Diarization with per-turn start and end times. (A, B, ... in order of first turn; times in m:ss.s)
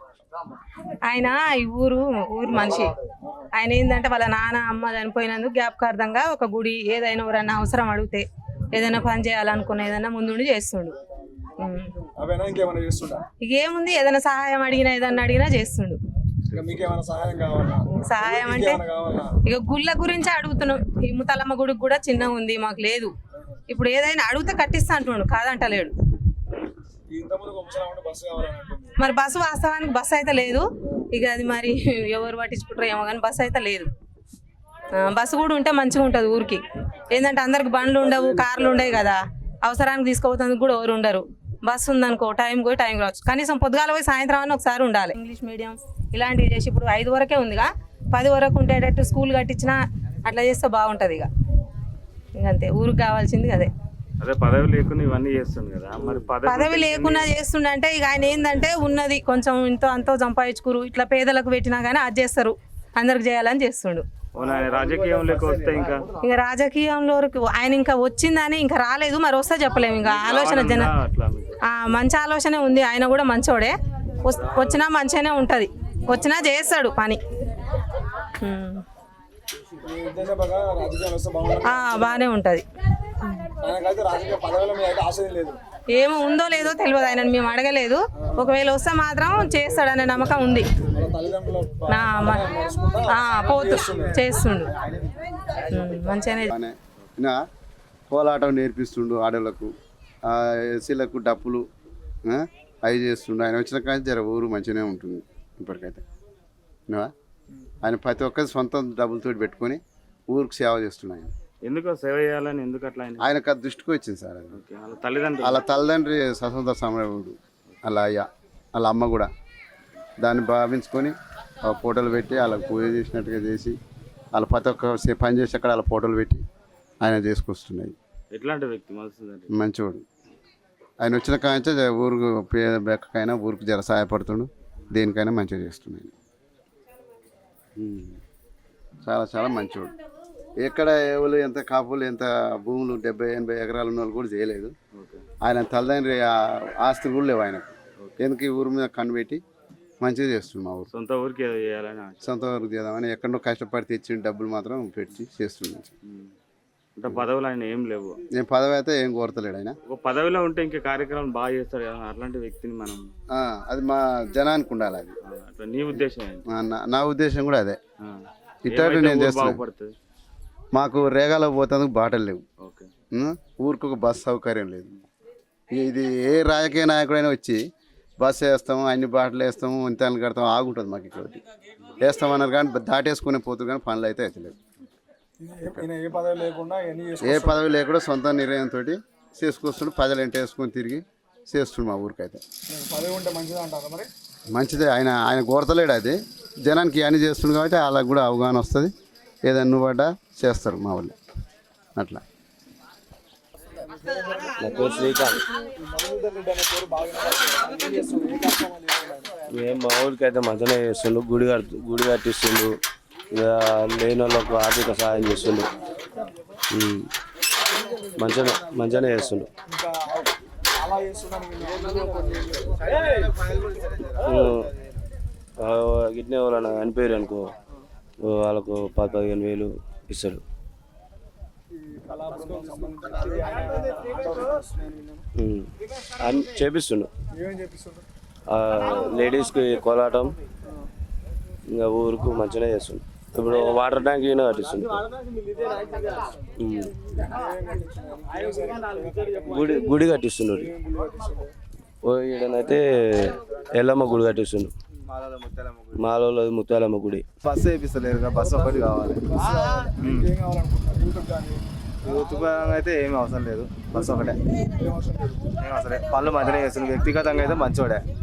0:01.0-0:03.0 A
0:03.6-0:11.0 A
0:11.6-0:12.0 A
0:12.2-0:13.2 B
0:13.4-0:16.0 A
0:16.5-0:19.3 B
0:17.9-0:18.8 A
0:19.4-0:23.1 A
0:23.7-0:25.9 A
0:27.1-0:29.0 B
0:29.0-0:33.9 A
0:34.9-0:51.3 A
0:37.8-0:39.1 B
0:52.4-0:53.7 A
0:54.2-0:57.4 C
0:56.5-1:04.1 A
1:04.4-1:06.1 C
1:04.4-1:05.9 B
1:06.2-1:10.9 A
1:10.0-1:11.6 C
1:11.7-1:17.2 A
1:14.3-1:14.8 C
1:18.4-1:18.8 A
1:19.8-1:22.3 B
1:21.6-1:22.6 A
1:23.2-1:23.5 A
1:23.6-1:25.6 B
1:25.9-1:30.7 A
1:30.9-1:34.2 B
1:31.9-1:32.5 A
1:33.1-1:34.7 A
1:35.6-1:36.5 A
1:36.5-1:37.4 D
1:38.1-1:39.7 D
1:40.3-1:41.6 D
1:42.3-1:46.0 D
1:47.8-1:51.3 D
1:51.7-1:53.3 C
1:53.2-1:54.6 D
1:54.5-1:55.6 C
1:55.4-1:59.3 D
2:00.2-2:03.8 D
2:04.3-2:06.4 D
2:07.0-2:08.0 D
2:08.3-2:09.5 C
2:09.5-2:10.0 D
2:11.0-2:16.1 D
2:17.8-2:18.2 D
2:19.0-2:19.9 D
2:20.6-2:24.7 D
2:24.9-2:25.2 C
2:25.4-2:29.4 D
2:30.0-2:30.9 D
2:30.9-2:32.4 C
2:32.2-2:35.9 D
2:36.1-2:36.3 C
2:37.0-2:38.2 C
2:38.3-2:39.8 D
2:39.9-2:43.0 C
2:43.3-2:45.2 D
2:45.3-2:46.4 C
2:45.9-2:47.8 D
2:48.0-2:49.9 C
2:48.7-2:49.6 D
2:50.7-2:52.4 D
2:52.6-2:52.9 C
2:53.1-2:54.9 D
2:55.7-2:57.6 D
2:58.2-3:01.4 D
3:02.0-3:04.6 D
3:05.4-3:07.6 B
3:07.2-3:12.4 D
3:12.7-3:14.1 B
3:14.5-3:18.9 D
3:19.4-3:21.1 D
3:22.0-3:22.2 D
3:23.9-3:24.7 B
3:24.6-3:25.4 E
3:25.8-3:29.3 B
3:29.5-3:32.7 E
3:33.3-3:35.8 E
3:36.7-3:37.1 E
3:38.2-3:39.5 E
3:39.7-3:43.0 B
3:42.9-3:44.2 F
3:44.2-3:44.7 E
3:45.6-3:47.5 E
3:48.2-3:50.4 E
3:51.7-3:55.3 B
3:55.4-3:57.1 E
3:57.3-3:58.0 B
3:58.5-4:00.4 E
4:01.7-4:05.0 E
4:05.7-4:06.0 B
4:06.6-4:06.9 E
4:07.2-4:09.9 B
4:09.5-4:10.7 E
4:10.6-4:11.5 B
4:12.0-4:14.7 E
4:15.1-4:16.0 F
4:16.0-4:17.3 E
4:17.4-4:19.3 F
4:19.2-4:21.6 B
4:22.0-4:24.4 F
4:24.7-4:25.5 B
4:25.6-4:28.1 F